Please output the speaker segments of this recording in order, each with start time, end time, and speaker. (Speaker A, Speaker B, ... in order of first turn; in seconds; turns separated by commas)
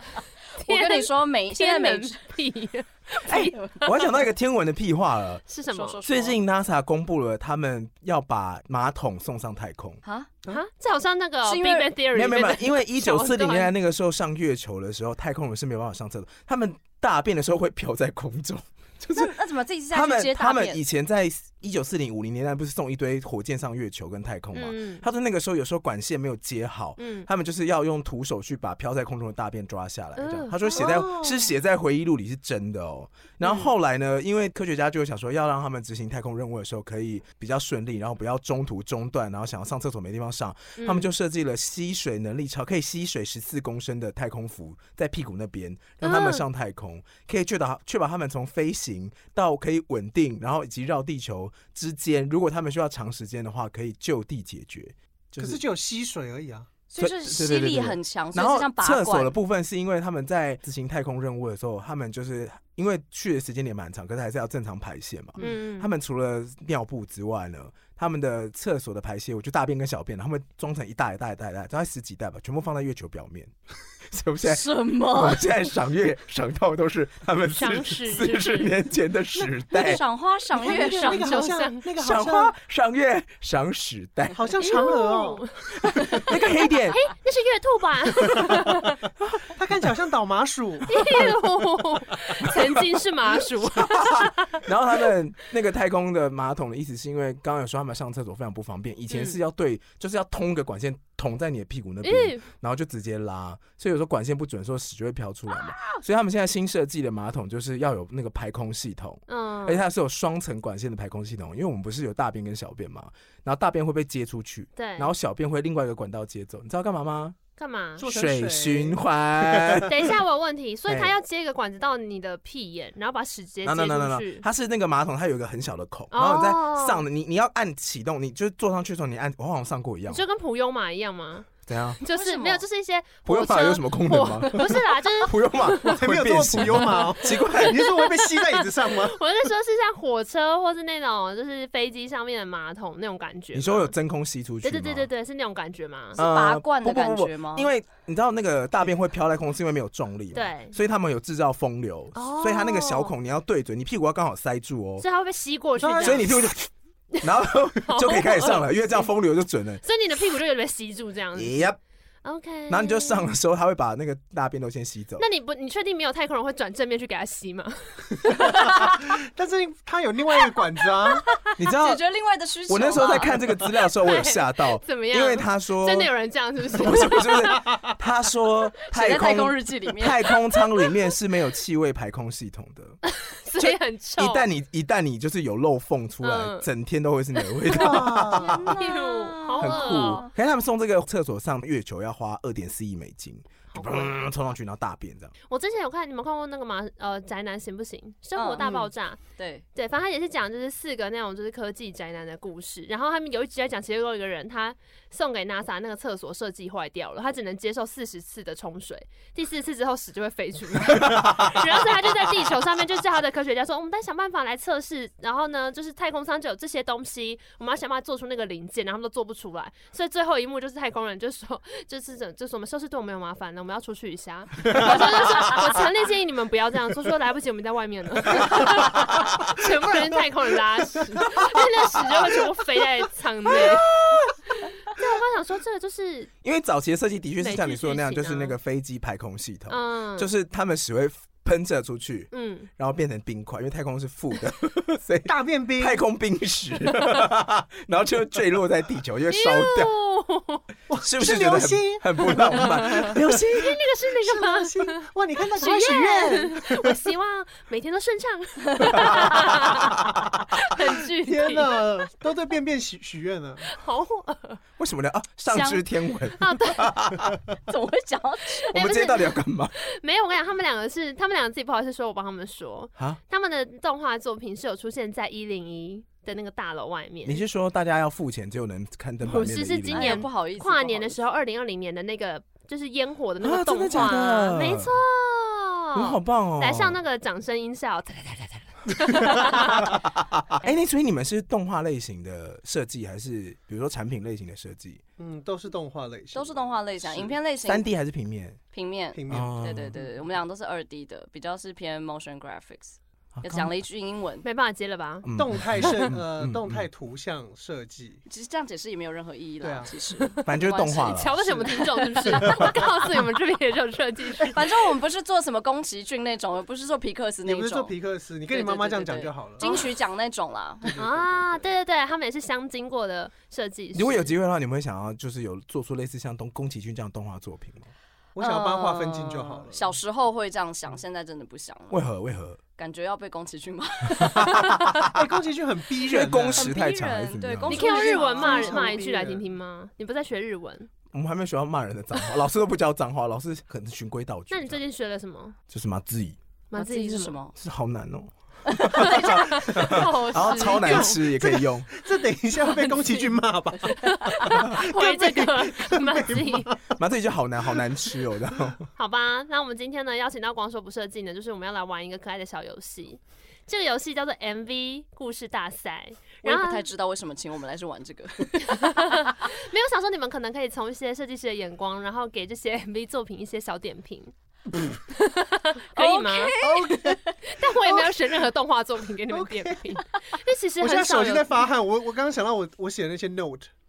Speaker A: 0.6-4.0, Speaker B: 0.6-2.2, Speaker C: 3.2-5.4, Speaker A: 5.5-6.0, Speaker B: 5.7-6.4, Speaker C: 6.0-10.0, Speaker B: 10.0-10.3, Speaker A: 10.5-13.7, Speaker B: 11.4-11.9, Speaker C: 12.1-19.4, Speaker B: 19.1-20.8, Speaker C: 19.9-55.6, Speaker A: 24.5-25.0, Speaker A: 27.0-27.3, Speaker A: 30.2-31.4, Speaker A: 40.8-41.1, Speaker A: 46.0-46.4, Speaker D: 55.4-56.7, Speaker B: 56.9-59.3, Speaker C: 57.0-73.5, Speaker A: 65.4-65.9, Speaker C: 74.1-80.0, Speaker B: 74.4-75.5, Speaker A: 77.5-78.7, Speaker B: 79.7-81.5, Speaker D: 80.5-82.5, Speaker A: 80.7-81.8, Speaker C: 82.0-84.5, Speaker D: 84.3-85.4, Speaker A: 84.6-89.0, Speaker C: 86.2-87.0, Speaker D: 89.5-91.3, Speaker A: 90.9-94.7, Speaker C: 93.8-117.4, Speaker A: 99.1-99.4, Speaker A: 102.0-102.5, Speaker A: 109.3-109.8, Speaker A: 114.8-115.1, Speaker A: 117.6-118.0, Speaker D: 118.0-119.9, Speaker C: 118.0-120.1, Speaker A: 119.9-124.5, Speaker C: 123.6-130.2, Speaker A: 126.1-127.0, Speaker A: 130.1-136.0, Speaker C: 131.7-132.0, Speaker B: 132.1-132.6, Speaker C: 133.2-137.9, Speaker D: 135.8-139.2, Speaker A: 137.3-143.9, Speaker C: 143.5-145.1, Speaker A: 144.6-146.2, Speaker B: 146.1-147.7, Speaker C: 146.2-155.0, Speaker A: 150.3-150.7, Speaker A: 152.1-153.1, Speaker A: 155.0-156.5, Speaker D: 155.8-156.2, Speaker C: 156.0-156.7, Speaker C: 157.2-159.8, Speaker A: 157.8-158.7, Speaker A: 159.8-161.6, Speaker C: 161.3-161.8, Speaker A: 162.2-163.3, Speaker C: 162.7-165.2, Speaker A: 165.2-169.0, Speaker D: 168.4-171.4, Speaker A: 171.1-171.5, Speaker C: 171.6-172.0, Speaker B: 171.7-173.4, Speaker C: 172.7-176.1, Speaker A: 173.9-177.6, Speaker C: 176.7-183.0, Speaker B: 178.9-180.4, Speaker A: 183.0-184.5, Speaker C: 183.6-188.6, Speaker A: 186.2-186.7, Speaker A: 187.6-190.3, Speaker D: 187.7-188.8, Speaker B: 188.3-190.3, Speaker C: 189.6-195.3, Speaker A: 193.7-194.2, Speaker A: 195.5-199.2, Speaker B: 198.3-198.8, Speaker D: 198.6-198.8, Speaker B: 199.3-199.6, Speaker A: 199.7-233.9, Speaker C: 233.5-234.3, Speaker A: 234.6-236.3, Speaker C: 236.4-249.9, Speaker A: 237.4-238.6, Speaker A: 239.7-240.3, Speaker A: 242.3-242.7, Speaker D: 245.2-246.0, Speaker A: 249.3-250.6, Speaker D: 250.9-253.4, Speaker C: 251.0-253.8, Speaker A: 252.9-255.0, Speaker D: 254.2-256.9, Speaker A: 255.5-261.9, Speaker C: 259.8-260.2, Speaker D: 261.1-263.6, Speaker A: 263.7-264.6, Speaker C: 264.8-267.4, Speaker A: 265.5-266.9, Speaker B: 267.7-268.7, Speaker C: 268.7-269.7, Speaker A: 268.7-277.4, Speaker C: 277.2-280.3, Speaker A: 279.2-290.0, Speaker B: 279.9-281.2, Speaker C: 283.4-284.9, Speaker C: 285.9-287.0, Speaker C: 289.6-295.0, Speaker D: 295.2-297.4, Speaker B: 296.3-297.9, Speaker C: 297.6-298.6, Speaker B: 298.7-304.4, Speaker D: 299.1-300.1, Speaker C: 299.3-300.0, Speaker C: 303.3-303.7, Speaker A: 304.4-305.3, Speaker C: 305.2-306.9, Speaker D: 305.4-308.2, Speaker B: 308.3-313.2, Speaker D: 309.6-309.9, Speaker A: 310.2-310.5, Speaker C: 310.4-311.4, Speaker A: 311.1-314.6, Speaker D: 312.2-312.6, Speaker B: 314.5-317.9, Speaker D: 317.4-319.7, Speaker B: 318.5-321.0, Speaker A: 319.6-319.9, Speaker D: 320.9-321.6, Speaker A: 321.0-324.3, Speaker C: 323.9-327.9, Speaker D: 328.4-330.0, Speaker B: 328.4-332.0, Speaker C: 331.9-332.6, Speaker B: 332.8-334.8, Speaker C: 334.2-335.1, Speaker D: 335.1-336.7, Speaker C: 336.1-337.9, Speaker B: 336.5-339.0, Speaker A: 337.7-340.9, Speaker D: 337.7-339.4, Speaker C: 341.1-344.8, Speaker A: 344.5-345.6, Speaker C: 345.7-346.4, Speaker A: 346.7-347.4, Speaker B: 346.7-347.5, Speaker C: 347.6-351.9, Speaker A: 348.9-351.5, Speaker D: 349.9-356.9, Speaker A: 352.6-356.7, Speaker C: 356.9-358.8, Speaker A: 358.9-366.9, Speaker B: 366.4-369.1, Speaker A: 368.6-374.3, Speaker A: 375.1-376.6, Speaker B: 375.9-377.3, Speaker D: 376.6-377.2, Speaker A: 377.4-381.6, Speaker D: 379.3-380.0, Speaker D: 380.8-383.7